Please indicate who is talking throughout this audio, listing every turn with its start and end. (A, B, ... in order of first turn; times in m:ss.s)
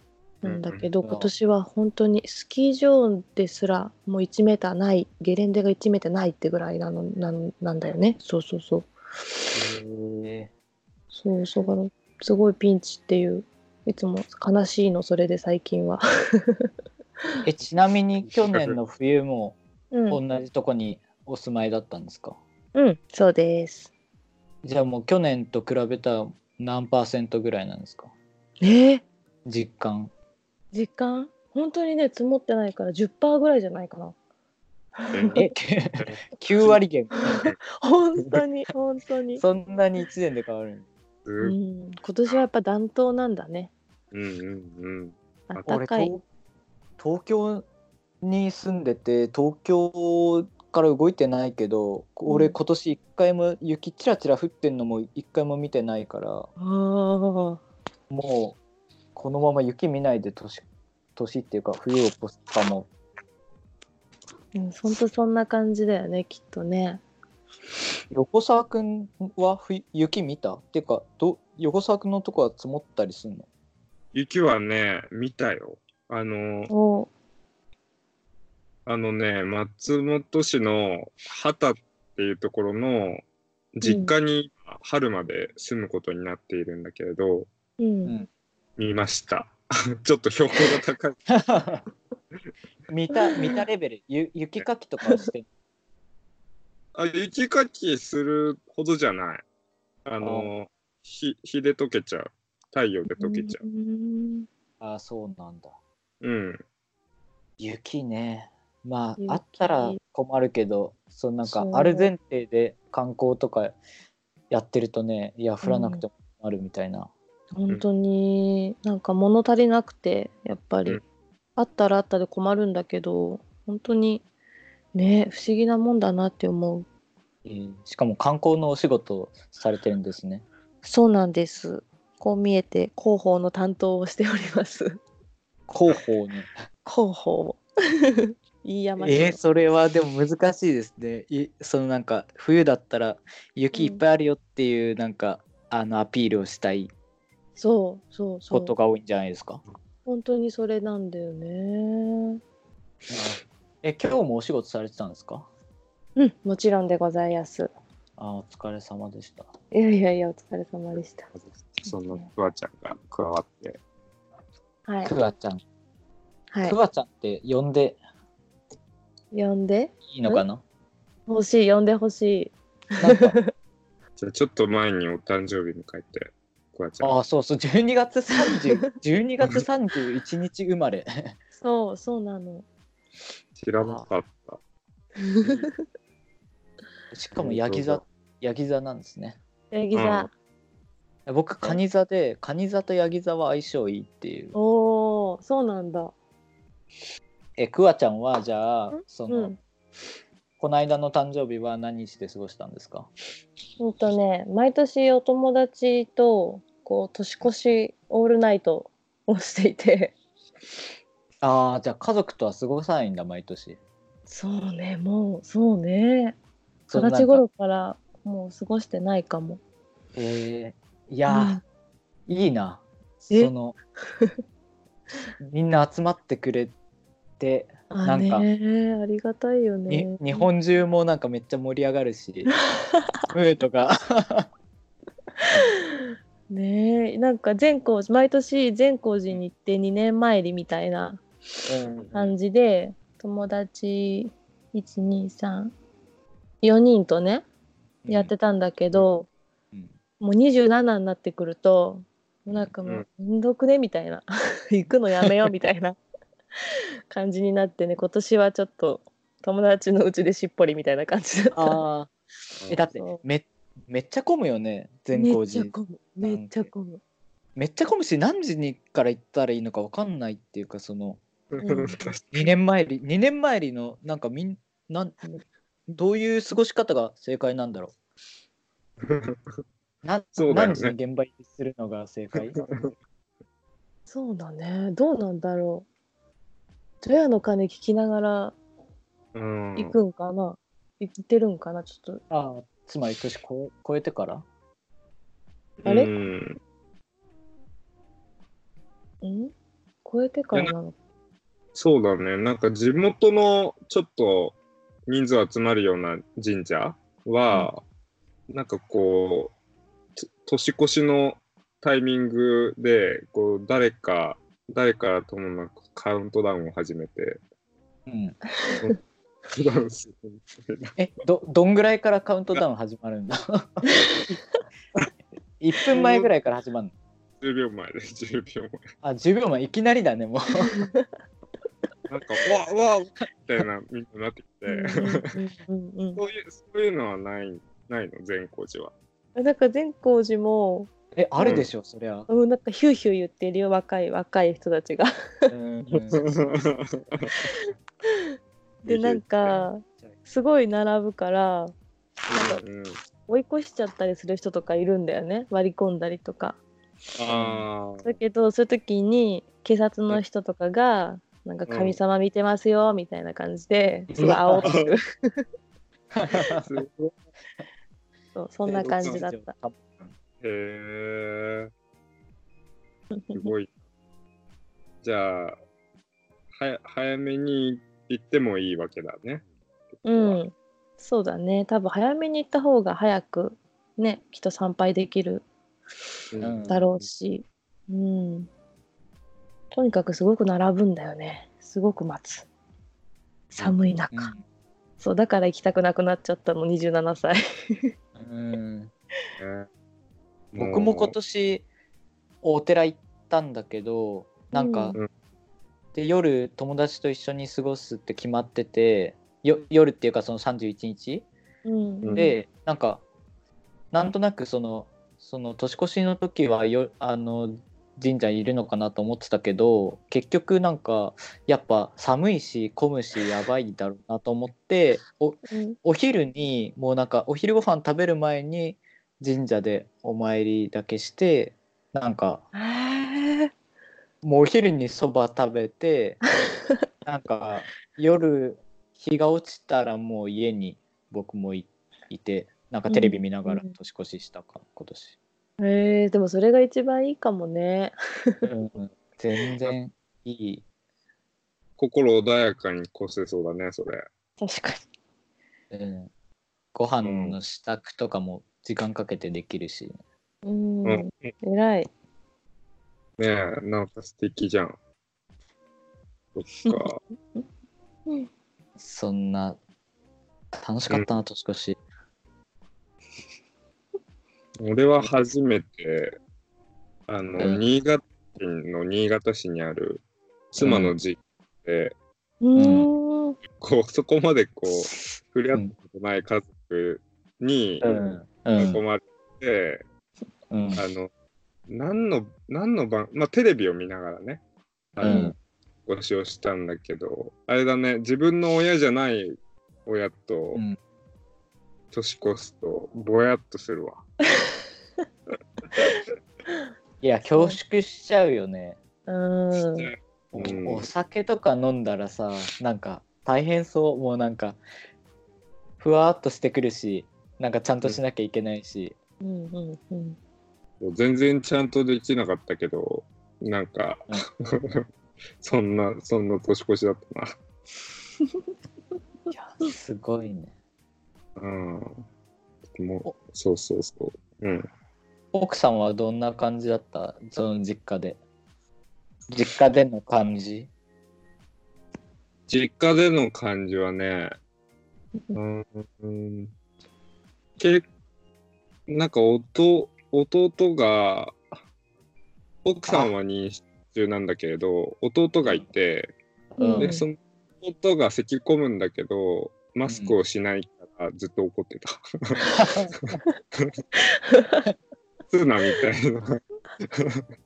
0:00.4-0:08.9 A
0:00.4-0:00.8 B
0:01.0-0:01.3 C
0:09.7-0:10.5 C
0:11.1-0:16.7 A
0:17.4-0:19.6 C
0:18.5-0:18.8 B
0:19.9-0:20.2 A
0:20.1-0:22.4 C
0:22.7-0:23.9 A
0:24.6-0:28.1 C
0:28.6-0:29.0 A
0:29.4-0:30.1 C
0:30.7-0:34.1 A
0:35.0-0:35.4 A
0:35.1-0:35.4 B
0:35.4-0:37.4 C
0:36.0-0:36.8 B
0:37.8-0:39.4 A
0:39.4-0:40.9 C
0:41.2-0:41.5 B
0:41.4-0:43.7 A
0:44.1-0:45.1 B
0:45.5-0:46.1 A
0:45.6-0:46.2 C
0:47.0-0:47.6 C
0:48.2-0:56.5 C
0:52.2-0:52.5 A
0:56.6-0:57.6 A
0:58.1-0:58.6 C
0:59.1-1:00.6 C
1:01.2-1:02.9 C
1:04.5-1:07.0 A
1:08.1-1:13.5 C
1:14.1-1:16.7 B
1:16.7-1:17.1 A
1:18.8-1:23.2 B
1:23.7-1:27.5 B
1:23.8-1:24.1 A
1:27.8-1:28.2 A
1:28.8-1:31.2 B
1:31.3-1:31.8 C
1:32.9-1:35.5 C
1:33.3-1:33.6 A
1:36.9-1:39.4 B
1:40.0-1:43.6 B
1:40.2-1:40.5 C
1:43.1-1:44.5 A
1:44.8-1:45.7 C
1:46.2-1:46.6 B
1:47.6-1:53.8 C
1:49.2-1:50.0 A
1:51.4-1:52.1 A
1:54.5-1:57.1 C
1:55.6-1:56.0 A
1:57.5-2:01.0 A
2:01.6-2:04.2 A
2:04.9-2:06.8 A
2:07.4-2:10.4 C
2:10.8-2:15.0 A
2:15.7-2:16.5 C
2:16.8-2:19.4 A
2:19.0-2:26.9 C
2:23.7-2:24.0 A
2:27.6-2:28.7 A
2:28.5-2:29.6 C
2:30.0-2:32.4 A
2:33.1-2:35.5 C
2:36.2-2:37.7 A
2:38.2-2:39.5 C
2:39.7-2:41.3 A
2:41.5-2:43.8 B
2:44.9-2:45.1 A
2:45.0-2:45.6 C
2:46.5-2:46.8 A
2:46.6-2:48.0 C
2:49.3-2:50.4 A
2:50.1-2:50.6 C
2:51.3-2:53.5 A
2:53.0-2:53.4 C
2:54.2-2:57.2 B
2:57.0-3:01.3 C
3:01.6-3:02.6 A
3:03.6-3:04.6 B
3:03.8-3:04.1 C
3:05.2-3:05.7 A
3:07.1-3:09.4 C
3:07.4-3:08.0 B
3:09.7-3:10.3 A
3:09.9-3:10.3 B
3:11.2-3:14.5 C
3:14.5-3:16.1 A
3:17.6-3:19.5 C
3:18.9-3:19.6 A
3:20.6-3:23.1 C
3:23.8-3:30.2 A
3:31.4-3:33.8 C
3:34.3-3:36.4 A
3:36.9-3:37.4 C
3:36.9-3:39.6 A
3:40.2-3:41.6 C
3:41.3-3:41.6 A
3:42.3-3:43.8 C
3:45.4-3:46.7 C
3:47.4-3:48.5 C
3:47.9-3:50.5 A
3:49.9-3:52.5 C
3:53.3-3:54.5 C
3:55.5-4:01.2 A
4:01.7-4:02.3 C
4:02.1-4:05.7 A
4:06.6-4:07.4 A
4:08.0-4:08.3 C
4:08.1-4:09.3 A
4:10.2-4:16.0 A
4:17.1-4:21.8 A
4:21.5-4:22.1 C
4:22.7-4:26.7 C
4:22.9-4:23.2 A
4:25.1-4:27.0 A
4:27.6-4:31.2 C
4:31.5-4:32.3 B
4:31.6-4:32.1 A
4:32.3-4:35.3 C
4:35.9-4:37.9 C
4:39.0-4:39.4 B
4:40.0-4:42.6 C
4:40.4-4:40.9 B
4:42.4-4:42.9 B
4:44.1-4:45.9 A
4:47.0-4:48.6 A
4:49.3-4:50.0 B
4:49.8-4:52.2 A
4:52.3-4:54.4 C
4:55.8-4:56.6 B
4:59.2-4:59.5 A
5:00.0-5:00.9 A
5:01.7-5:07.8 B
5:08.5-5:09.5 B
5:10.4-5:17.4 B
5:18.1-5:18.4 C
5:18.6-5:18.9 A
5:19.5-5:20.9 B
5:21.0-5:24.3 C
5:25.6-5:26.9 C
5:25.9-5:26.2 B
5:27.4-5:28.9 B
5:29.0-5:30.7 C
5:30.6-5:31.1 A
5:32.1-5:35.4 B
5:34.7-5:36.2 A
5:36.2-5:38.9 B
5:39.4-5:41.6 A
5:41.1-5:42.3 C
5:41.4-5:41.7 B
5:42.3-5:45.5 A
5:45.5-5:46.2 C
5:45.9-5:47.3 B
5:48.8-5:51.7 A
5:48.8-5:49.6 B
5:52.3-5:52.6 A
5:52.3-5:53.0 B
5:53.3-5:56.6 A
5:57.2-5:58.2 B
5:57.3-5:57.6 C
5:58.0-6:05.4 A
6:01.7-6:02.0 B
6:04.1-6:04.7 C
6:04.6-6:04.9 B
6:06.1-6:06.7 C
6:06.5-6:07.1 B
6:08.4-6:09.5 A
6:08.7-6:10.1 C
6:08.8-6:09.2 B
6:10.4-6:11.7 B
6:13.1-6:13.5 A
6:13.3-6:13.7 B
6:15.0-6:15.6 B
6:16.5-6:20.4 B
6:20.0-6:25.4 A
6:26.3-6:26.7 B
6:26.4-6:26.8 C
6:26.7-6:28.5 A
6:29.7-6:32.5 A
6:33.5-6:34.3 A
6:33.6-6:34.4 C
6:35.0-6:37.4 A
6:38.2-6:38.9 C
6:39.4-6:39.7 B
6:40.5-6:41.1 B
6:40.6-6:41.6 C
6:42.4-6:45.0 C
6:44.5-6:45.0 A
6:45.9-6:51.3 C
6:51.6-6:52.3 A
6:52.0-6:52.3 B
6:52.1-6:53.0 C
6:53.9-7:12.4 C
7:05.5-7:05.8 A
7:12.5-7:13.5 A
7:14.2-7:16.2 C
7:17.0-7:25.1 C
7:22.9-7:23.7 A
7:25.6-7:28.4 A
7:28.4-7:30.6 C
7:31.8-7:34.0 B
7:34.4-7:34.8 A
7:35.7-7:36.1 C
7:36.7-7:40.0 C
7:37.0-7:37.4 B
7:40.4-7:41.9 A
7:40.8-7:41.3 B
7:43.2-7:44.8 B
7:46.3-7:47.0 B
7:48.8-7:49.6 C
7:50.5-7:51.8 C
7:50.9-7:51.1 B
7:54.6-7:56.2 B
7:57.1-8:01.9 B
8:00.6-8:00.9 C
8:02.4-8:03.4 A
8:02.6-8:02.9 C
8:03.6-8:08.0 B
8:07.8-8:08.8 C
8:08.6-8:09.8 B
8:10.5-8:10.8 C
8:10.8-8:11.1 B
8:11.7-8:14.4 B
8:14.9-8:15.3 B
8:15.0-8:15.3 C
8:15.0-8:15.3 A
8:15.8-8:20.6 B
8:21.9-8:24.0 B
8:27.0-8:28.8 C
8:29.1-8:29.9 A
8:29.6-8:30.9 B
8:30.3-8:34.6 C
8:35.8-8:38.9 C
8:39.2-8:40.2 A
8:40.8-8:44.8 B
8:45.4-8:47.3 B
8:49.4-8:50.5 C
8:51.4-8:52.0 B
8:52.7-8:54.6 B
8:55.3-8:58.2 C
8:59.3-9:00.7 C
9:02.5-9:04.3 B
9:05.3-9:06.5 B
9:07.6-9:07.8 B
9:08.9-9:11.4 B
9:12.6-9:16.1 B
9:16.5-9:16.9 C
9:16.6-9:17.0 A
9:16.8-9:23.7 B
9:19.9-9:20.1 C
9:22.5-9:22.9 C
9:24.0-9:24.6 A
9:25.3-9:27.2 B